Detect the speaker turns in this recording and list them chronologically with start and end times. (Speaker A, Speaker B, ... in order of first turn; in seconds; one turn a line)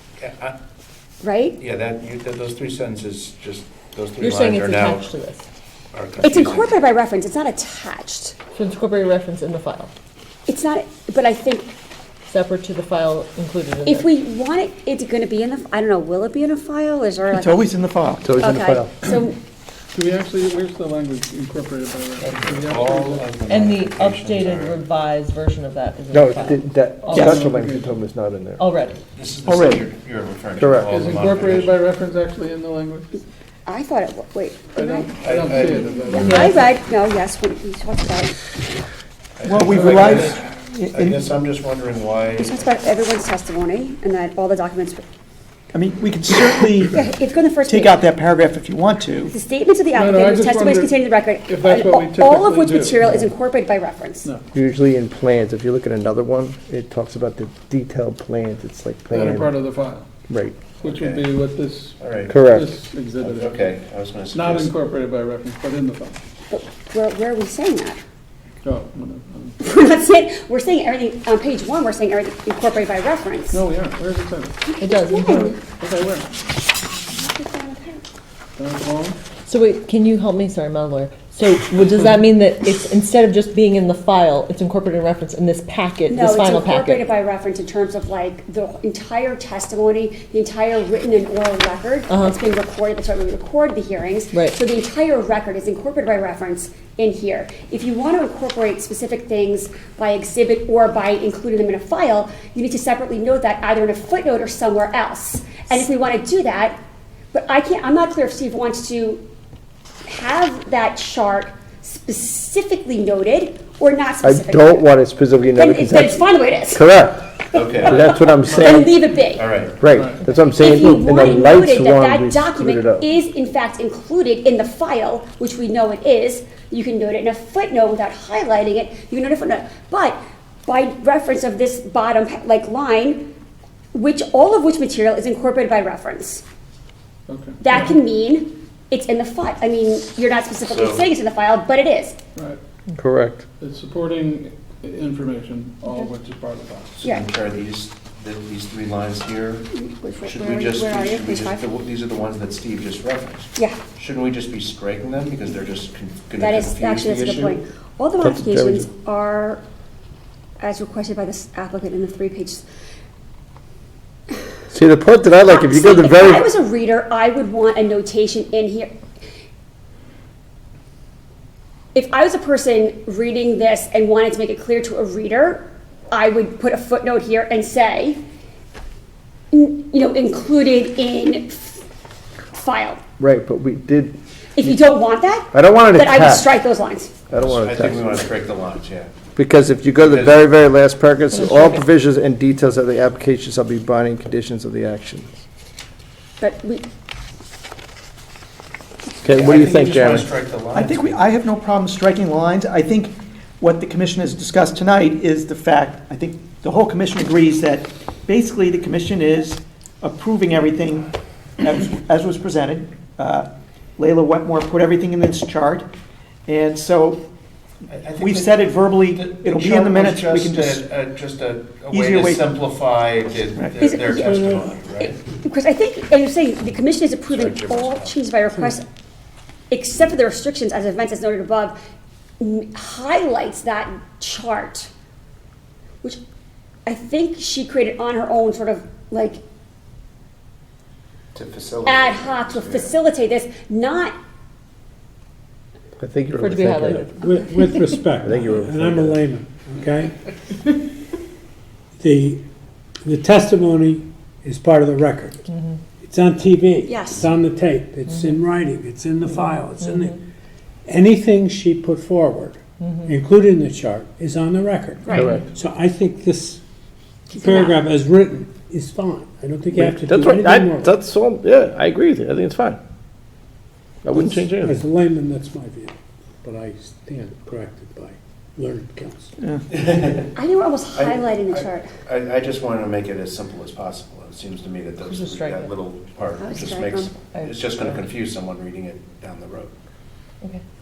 Speaker A: 0.2-0.6
Speaker B: 1.2-1.6
Speaker A: 1.6-5.1
Speaker C: 4.2-5.5
Speaker A: 5.9-6.8
Speaker B: 6.2-8.4
Speaker C: 8.5-9.9
Speaker B: 10.5-11.7
Speaker C: 12.3-14.1
Speaker B: 13.8-17.6
Speaker D: 17.3-18.3
Speaker E: 18.2-19.1
Speaker B: 18.4-19.4
Speaker F: 19.9-23.3
Speaker A: 22.2-24.8
Speaker C: 23.5-27.4
Speaker E: 26.1-28.6
Speaker F: 27.0-27.9
Speaker C: 28.6-29.0
Speaker A: 29.2-31.8
Speaker E: 29.5-29.9
Speaker E: 30.6-30.9
Speaker F: 30.9-33.2
Speaker B: 33.7-35.1
Speaker F: 34.8-36.5
Speaker A: 35.2-36.4
Speaker B: 35.8-38.4
Speaker C: 36.1-36.6
Speaker A: 39.4-40.4
Speaker D: 39.5-41.2
Speaker F: 39.6-40.1
Speaker A: 40.9-42.8
Speaker B: 42.4-45.1
Speaker D: 45.7-47.1
Speaker B: 46.9-48.0
Speaker D: 47.7-49.3
Speaker B: 49.3-54.3
Speaker F: 49.9-53.3
Speaker E: 54.5-59.5
Speaker F: 59.1-60.1
Speaker E: 60.3-60.6
Speaker F: 60.8-63.7
Speaker A: 60.9-61.3
Speaker A: 62.0-62.4
Speaker E: 62.3-62.8
Speaker A: 63.2-64.8
Speaker F: 64.3-66.2
Speaker B: 66.5-68.0
Speaker F: 68.6-69.6
Speaker B: 69.6-73.6
Speaker F: 73.5-74.6
Speaker B: 74.6-75.6
Speaker C: 74.8-75.5
Speaker F: 75.4-76.3
Speaker B: 77.1-78.0
Speaker F: 78.6-79.2
Speaker C: 79.5-87.1
Speaker B: 86.1-106.8
Speaker C: 92.1-92.4
Speaker B: 107.3-109.2
Speaker B: 110.1-114.9
Speaker E: 114.2-119.0
Speaker B: 115.5-116.8
Speaker B: 117.5-119.5
Speaker A: 117.5-118.0
Speaker A: 119.3-119.9
Speaker E: 119.8-123.1
Speaker F: 119.9-120.2
Speaker B: 120.3-133.3
Speaker B: 133.9-136.4
Speaker F: 137.3-137.9
Speaker B: 137.6-142.2
Speaker A: 140.6-141.1
Speaker E: 143.0-143.4
Speaker F: 143.6-147.0
Speaker A: 147.0-149.7
Speaker B: 147.0-147.3
Speaker B: 149.7-151.7
Speaker A: 150.2-157.6
Speaker B: 156.4-159.6
Speaker E: 158.2-158.9
Speaker B: 160.6-162.6
Speaker E: 164.7-166.4
Speaker B: 165.5-168.9
Speaker B: 171.9-178.2
Speaker B: 179.5-181.8
Speaker B: 182.5-183.0
Speaker E: 183.2-184.8
Speaker B: 184.6-187.1
Speaker E: 185.5-186.5
Speaker E: 187.3-188.1
Speaker A: 187.4-189.1
Speaker E: 189.4-195.4
Speaker A: 189.9-190.4
Speaker C: 191.3-191.8
Speaker B: 196.4-196.8
Speaker E: 199.2-200.3
Speaker A: 199.3-201.2
Speaker D: 200.7-215.9
Speaker D: 216.5-217.2
Speaker A: 217.9-225.2
Speaker D: 218.2-220.8
Speaker D: 221.9-222.5
Speaker B: 223.8-224.4
Speaker B: 225.0-228.8
Speaker A: 227.3-228.3
Speaker B: 229.7-231.8
Speaker B: 232.4-234.9
Speaker B: 236.9-239.4
Speaker A: 241.3-243.0
Speaker B: 241.8-244.2
Speaker E: 246.0-247.1
Speaker C: 246.4-247.9
Speaker G: 246.9-250.1
Speaker E: 248.2-249.2
Speaker G: 252.0-252.4
Speaker G: 253.1-255.4
Speaker G: 256.0-260.2
Speaker B: 256.8-257.3
Speaker G: 260.9-266.6
Speaker C: 262.8-263.1
Speaker B: 265.0-265.4
Speaker E: 265.1-265.5
Speaker B: 267.3-267.8
Speaker G: 267.3-270.9
Speaker E: 269.7-272.8
Speaker E: 274.0-274.8
Speaker G: 274.2-279.3
Speaker A: 279.7-280.4
Speaker B: 280.4-281.9
Speaker A: 280.9-289.7
Speaker C: 285.0-285.7
Speaker B: 286.4-287.1
Speaker C: 287.3-288.0